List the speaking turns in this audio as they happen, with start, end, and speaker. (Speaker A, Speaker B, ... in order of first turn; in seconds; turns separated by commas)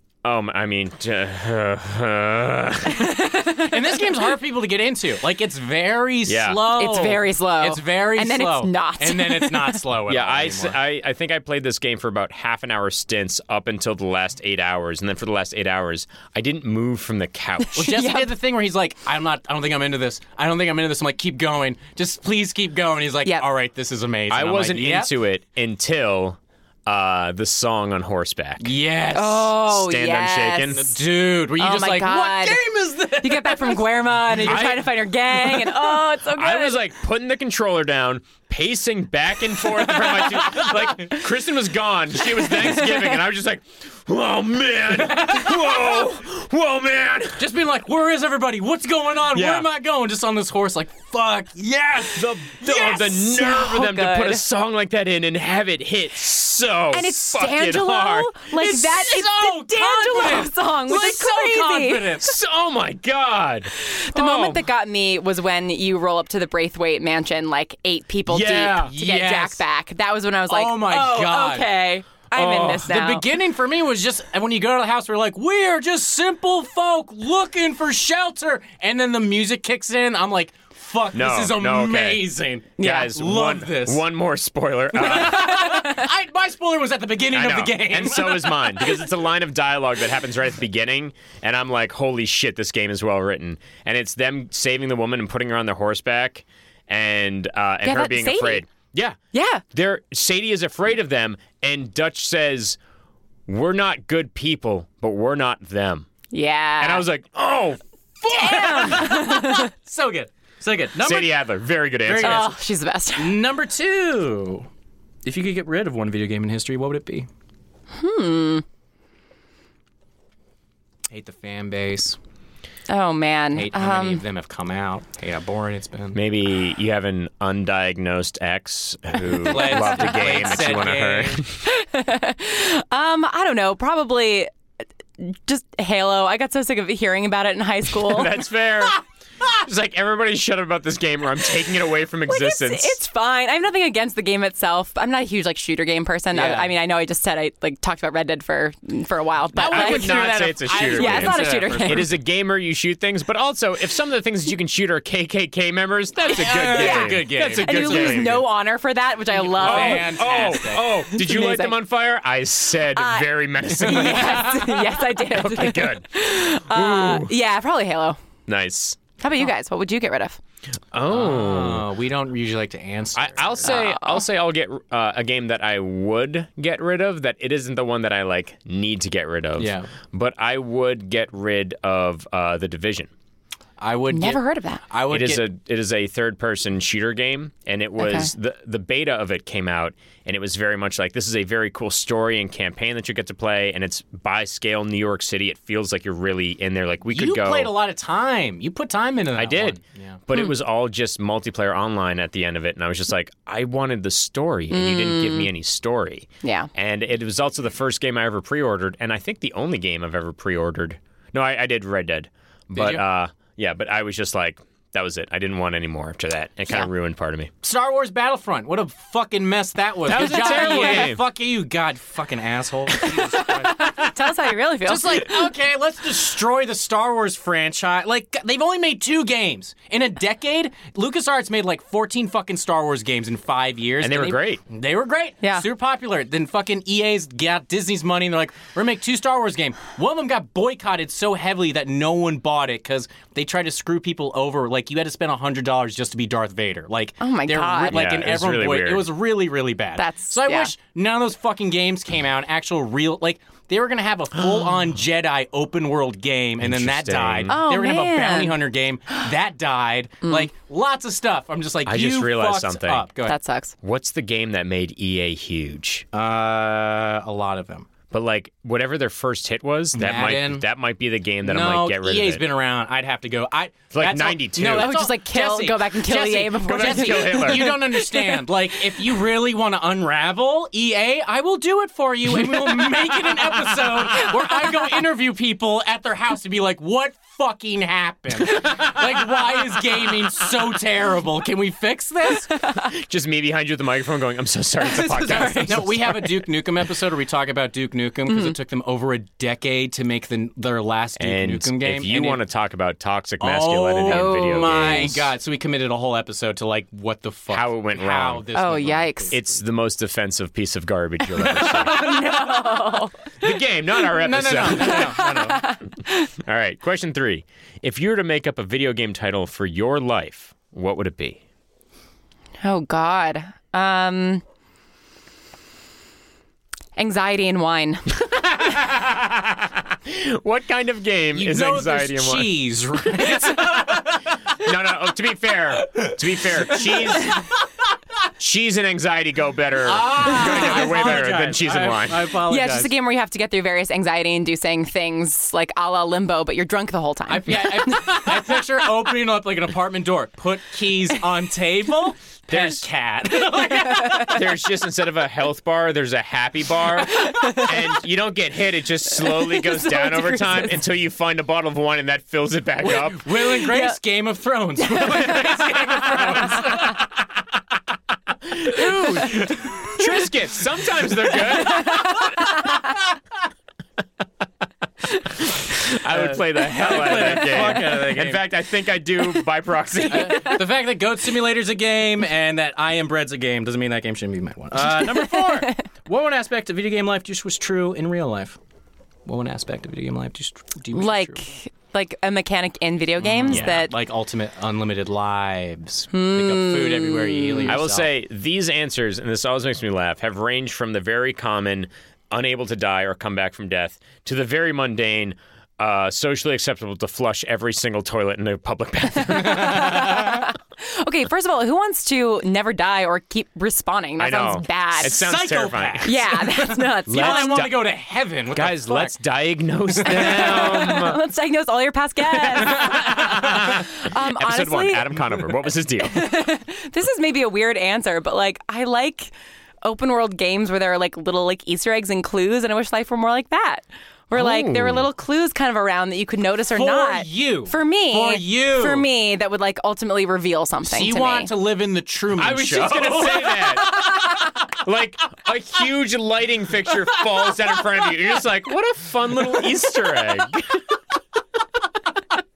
Speaker A: 0.2-3.2, Speaker B: 2.9-3.8, Speaker C: 3.5-10.8, Speaker A: 6.2-6.7, Speaker B: 6.7-9.8, Speaker A: 10.1-17.9, Speaker B: 17.6-18.3, Speaker C: 17.8-25.1, Speaker A: 24.3-28.7, Speaker C: 28.6-29.5, Speaker B: 29.1-31.0, Speaker A: 29.5-30.9, Speaker C: 30.7-34.6, Speaker B: 31.6-32.6, Speaker B: 33.2-36.8, Speaker A: 34.5-47.5, Speaker C: 39.8-41.1, Speaker B: 42.5-43.2, Speaker C: 44.9-46.0, Speaker C: 47.4-52.5, Speaker A: 49.3-49.7, Speaker A: 52.0-58.3, Speaker B: 52.6-54.4, Speaker B: 56.9-62.2, Speaker C: 58.5-62.4, Speaker A: 62.2-64.6, Speaker B: 63.8-73.2, Speaker A: 68.3-68.9, Speaker C: 68.4-69.6, Speaker C: 70.5-71.7, Speaker C: 72.3-84.0, Speaker A: 81.1-82.2, Speaker B: 82.8-83.1, Speaker A: 82.8-85.7, Speaker C: 84.9-89.0, Speaker B: 85.4-86.0, Speaker A: 87.3-99.2, Speaker B: 97.8-98.6, Speaker B: 99.3-99.6, Speaker A: 99.7-102.8, Speaker A: 103.5-106.1, Speaker B: 106.3-107.0, Speaker A: 106.8-107.8, Speaker C: 108.2-111.4, Speaker B: 108.3-109.7, Speaker A: 108.3-108.9, Speaker A: 111.0-112.5, Speaker C: 112.0-112.5, Speaker B: 112.2-113.4, Speaker C: 113.2-114.7, Speaker C: 115.2-117.3, Speaker B: 117.9-118.6, Speaker C: 121.1-122.2, Speaker B: 122.9-124.2, Speaker C: 123.5-126.2, Speaker A: 126.1-131.6, Speaker C: 129.4-131.4, Speaker B: 129.5-130.4, Speaker B: 131.6-134.5, Speaker B: 135.2-138.4, Speaker A: 138.0-143.0, Speaker B: 142.3-152.1, Speaker C: 146.3-146.7, Speaker A: 149.5-158.4, Speaker C: 149.6-152.1, Speaker C: 156.3-158.4, Speaker B: 156.6-161.8, Speaker C: 159.3-160.9, Speaker A: 159.6-167.3, Speaker B: 162.9-168.2, Speaker C: 163.9-164.4, Speaker A: 168.5-169.0, Speaker B: 169.2-170.4, Speaker A: 170.9-171.8, Speaker C: 171.1-173.7, Speaker A: 173.2-183.1, Speaker B: 173.6-174.2, Speaker C: 179.6-179.9, Speaker C: 183.8-185.4, Speaker B: 184.1-184.8, Speaker A: 185.1-197.7, Speaker B: 188.0-188.3, Speaker C: 197.1-200.2, Speaker A: 199.3-217.5, Speaker B: 204.7-205.5, Speaker B: 206.4-206.7, Speaker C: 212.7-213.0, Speaker C: 217.6-224.1, Speaker A: 220.1-221.2, Speaker B: 220.4-220.8, Speaker B: 223.0-225.5, Speaker C: 224.8-263.4, Speaker A: 234.0-234.6, Speaker B: 247.2-248.0, Speaker A: 247.9-249.1, Speaker B: 250.0-250.7, Speaker A: 256.6-257.5, Speaker B: 257.5-258.6, Speaker A: 261.8-263.1, Speaker B: 263.2-263.7, Speaker A: 263.8-266.1, Speaker C: 266.1-267.9, Speaker A: 268.1-272.4, Speaker C: 269.9-270.6, Speaker C: 271.4-292.5, Speaker A: 273.9-274.9, Speaker B: 274.6-278.4, Speaker A: 276.6-277.8, Speaker B: 292.5-292.9, Speaker A: 292.7-296.2, Speaker B: 294.8-296.3, Speaker C: 295.6-302.4, Speaker B: 298.3-298.6, Speaker A: 301.2-305.3, Speaker C: 303.4-309.4, Speaker B: 304.1-305.1, Speaker A: 307.5-308.4, Speaker B: 308.5-309.3, Speaker A: 309.3-312.1, Speaker B: 311.4-313.5, Speaker C: 311.9-312.3, Speaker A: 313.4-315.8, Speaker C: 314.2-315.4, Speaker B: 314.7-316.3, Speaker A: 316.4-321.4, Speaker B: 322.6-324.4, Speaker B: 326.9-328.1, Speaker A: 328.6-332.5, Speaker C: 331.3-334.4, Speaker A: 333.5-334.0, Speaker A: 334.5-337.4, Speaker C: 335.8-337.5, Speaker A: 338.4-342.3, Speaker C: 339.8-342.9, Speaker B: 342.4-348.6, Speaker C: 347.3-354.4, Speaker A: 352.5-352.8, Speaker B: 353.8-354.3, Speaker A: 354.3-363.5, Speaker B: 357.1-357.7, Speaker B: 359.2-360.8, Speaker C: 362.8-367.1, Speaker B: 363.7-364.0, Speaker B: 365.0-365.4, Speaker A: 366.4-366.9, Speaker A: 368.4-372.6, Speaker C: 368.7-369.9, Speaker C: 371.8-372.1, Speaker B: 371.8-372.7, Speaker A: 375.4-380.6, Speaker C: 376.1-378.4, Speaker C: 380.1-388.6, Speaker B: 385.4-385.7, Speaker C: 389.2-391.4, Speaker B: 390.9-393.9, Speaker C: 393.2-398.1, Speaker A: 393.5-393.8, Speaker B: 396.1-397.7, Speaker A: 397.7-410.4, Speaker B: 409.3-415.3, Speaker C: 409.5-409.9, Speaker A: 414.2-416.3, Speaker C: 415.0-419.1, Speaker B: 416.0-417.7, Speaker A: 417.1-417.8, Speaker A: 418.5-421.2, Speaker C: 419.9-420.9, Speaker B: 420.0-429.3, Speaker A: 422.3-426.3, Speaker C: 422.7-423.4, Speaker B: 429.8-441.5, Speaker A: 434.3-435.1, Speaker C: 436.7-439.1, Speaker C: 440.8-443.9, Speaker A: 442.3-450.8, Speaker B: 443.8-444.6